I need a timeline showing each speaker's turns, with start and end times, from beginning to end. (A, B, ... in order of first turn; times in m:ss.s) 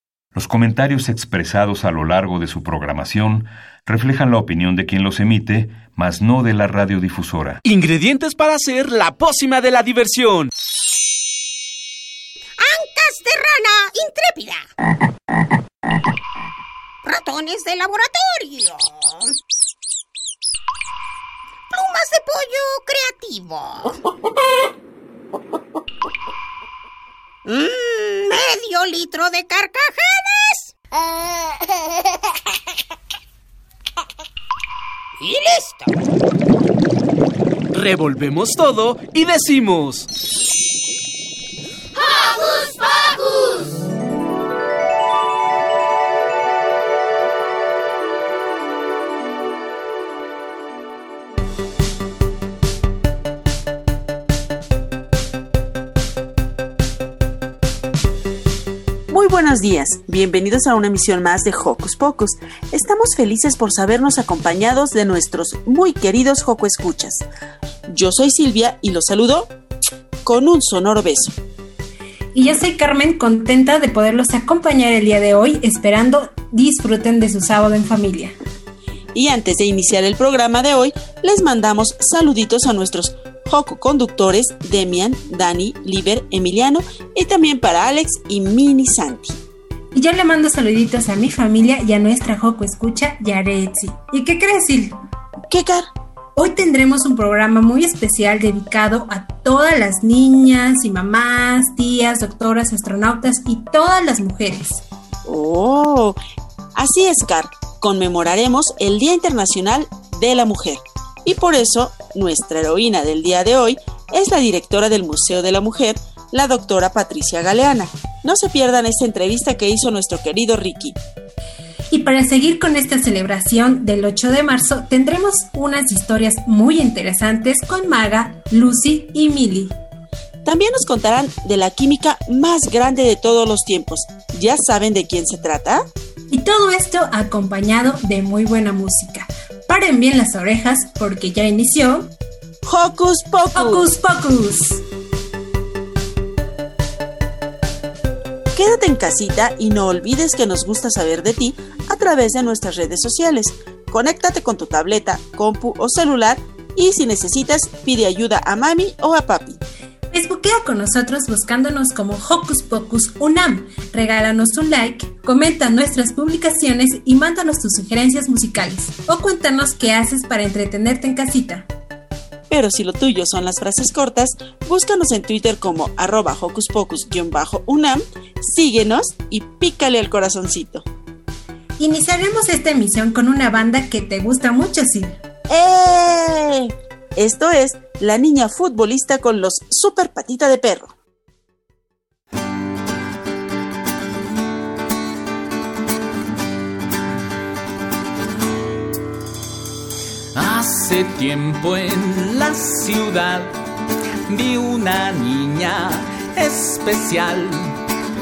0:00.4-0:07.6 A
0:07.6-0:10.5 B
0:12.6-0:14.6 C
0:17.0-0:19.2 C
0:21.7-0:24.0 C
0:27.5-0:31.7 C
0:35.2-0:35.8 C
0:37.7-0:40.1 B
0:59.1-1:07.3 D
1:07.9-1:09.5 D
1:10.2-1:11.4 D
1:12.4-1:18.4 E
1:19.2-1:29.4 D
1:29.9-1:35.0 E
1:35.5-1:35.9 D
1:36.4-1:44.8 E
1:45.3-1:46.2 D
1:46.8-2:01.0 D
2:01.9-2:09.8 E
2:10.4-2:15.8 D
2:16.3-2:22.1 E
2:22.6-2:23.9 D
2:23.5-2:24.8 E
2:28.5-2:39.6 D
2:40.1-2:51.7 E
2:52.5-3:00.9 D
3:01.8-3:05.2 E
3:05.5-3:11.0 D
3:20.4-3:23.5 F
3:24.3-3:27.8 F